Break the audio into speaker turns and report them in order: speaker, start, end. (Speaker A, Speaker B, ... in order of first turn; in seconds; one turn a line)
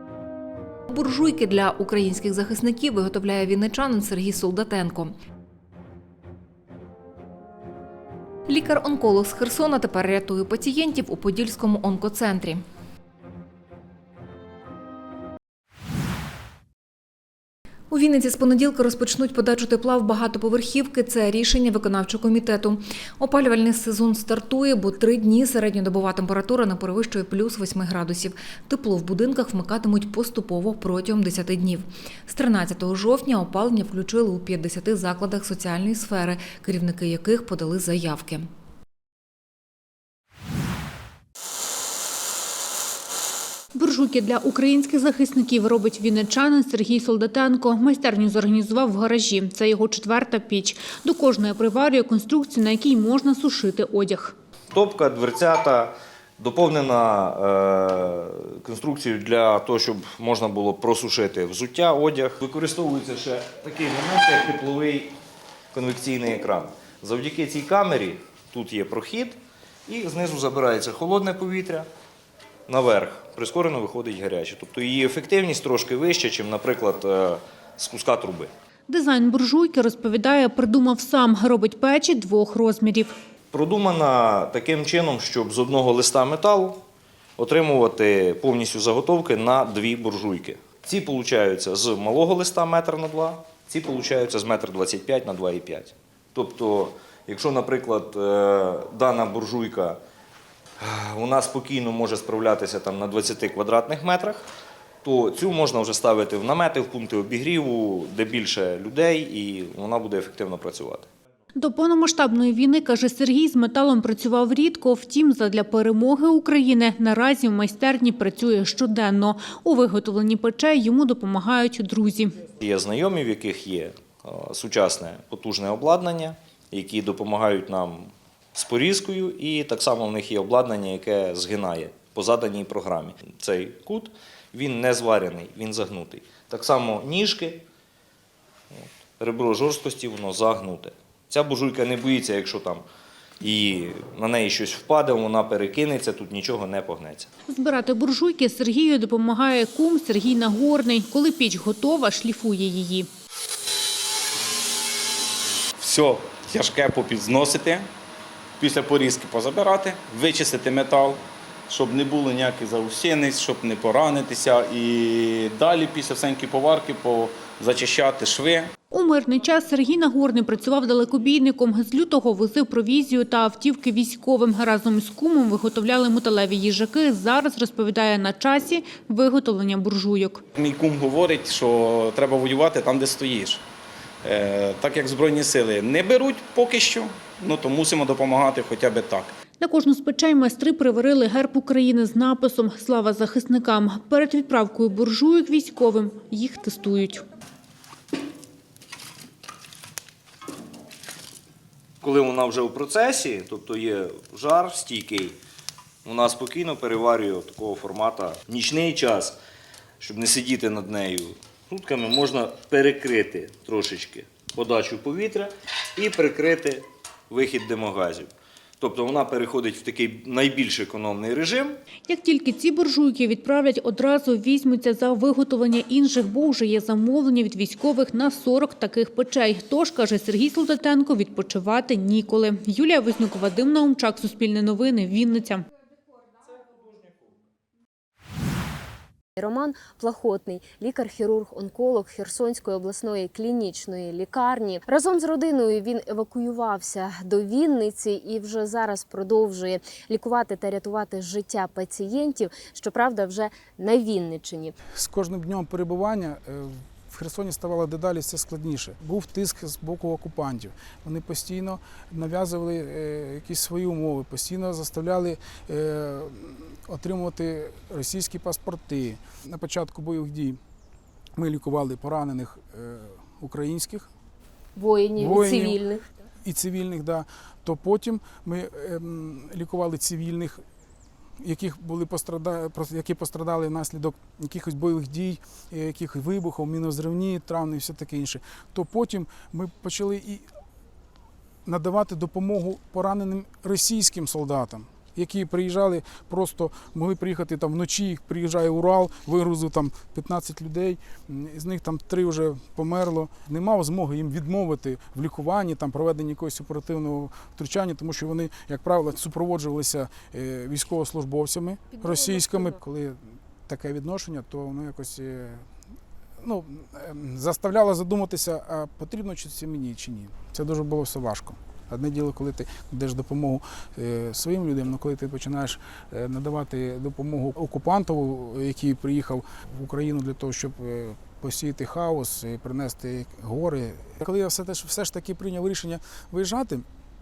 Speaker A: 0.9-5.1
Speaker A: 8.5-12.6
Speaker A: 17.9-38.5
Speaker B: 43.8-54.4
Speaker C: 54.7-65.1
Speaker C: 65.7-71.9
Speaker C: 72.7-78.5
Speaker B: 78.9-83.1
Speaker C: 83.5-86.8
Speaker C: 87.4-100.0
Speaker C: 100.8-104.4
Speaker C: 105.0-111.1
Speaker B: 111.6-122.3
Speaker C: 122.6-137.6
Speaker C: 138.7-142.8
Speaker C: 143.4-147.3
Speaker B: 147.5-153.1
Speaker D: 155.8-157.9
Speaker D: 158.6-168.7
Speaker B: 168.9-180.4
Speaker D: 180.6-183.6
Speaker D: 184.2-189.3
Speaker B: 189.6-197.2
Speaker C: 202.0-205.4
Speaker C: 206.1-209.4
Speaker C: 210.0-218.3
Speaker C: 218.8-221.8
Speaker B: 222.1-235.7
Speaker E: 239.4-254.8
Speaker F: 254.9-270.6
Speaker F: 271.4-274.1
Speaker E: 274.8-276.1
Speaker F: 275.2-275.8
Speaker F: 276.4-280.6
Speaker F: 281.4-290.4
Speaker F: 291.6-315.6
Speaker F: 316.4-336.9